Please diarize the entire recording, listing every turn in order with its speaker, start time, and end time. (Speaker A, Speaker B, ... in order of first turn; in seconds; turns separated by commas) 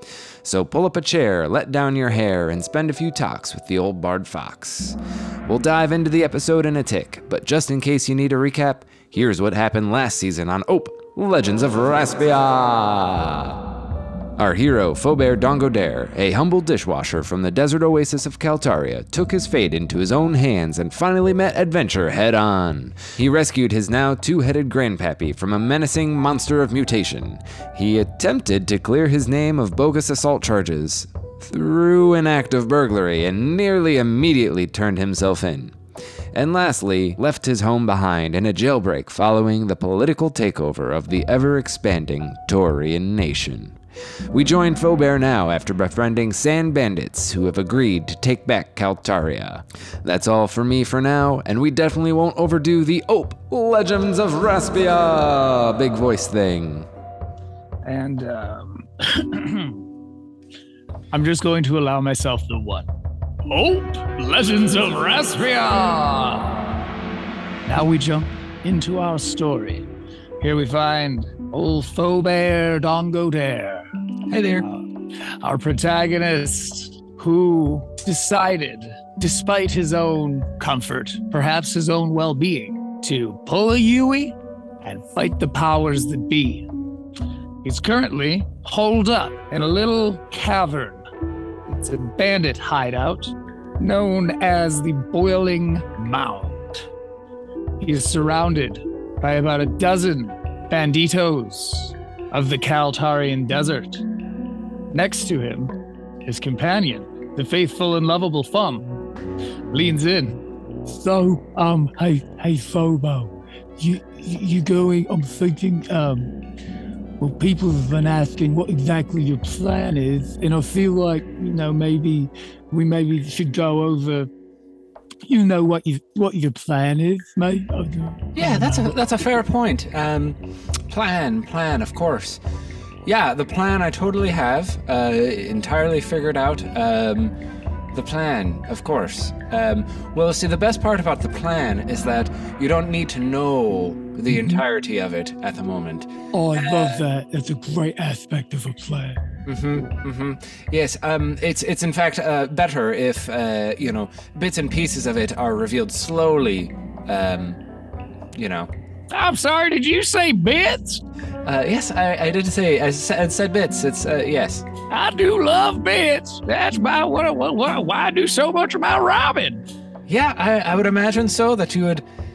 Speaker A: 0.4-13.6, Speaker A: 14.4-35.7, Speaker A: 36.3-43.8, Speaker A: 44.3-56.9, Speaker B: 57.8-59.8, Speaker B: 61.1-62.9, Speaker B: 63.5-66.8, Speaker B: 67.7-69.9, Speaker B: 70.4-73.9, Speaker C: 74.3-74.7, Speaker B: 75.4-86.7, Speaker B: 87.6-91.0, Speaker B: 91.7-96.9, Speaker B: 97.8-104.0, Speaker B: 104.9-109.0, Speaker B: 109.7-110.4, Speaker D: 110.8-116.3, Speaker D: 117.2-124.3, Speaker D: 125.2-128.9, Speaker C: 128.3-132.4, Speaker C: 133.0-137.3, Speaker C: 137.9-147.0, Speaker D: 144.3-144.6, Speaker D: 146.3-149.2, Speaker C: 149.4-157.6, Speaker C: 158.3-158.7, Speaker B: 159.1-161.0, Speaker C: 161.4-164.7, Speaker B: 164.9-169.7, Speaker C: 170.1-172.0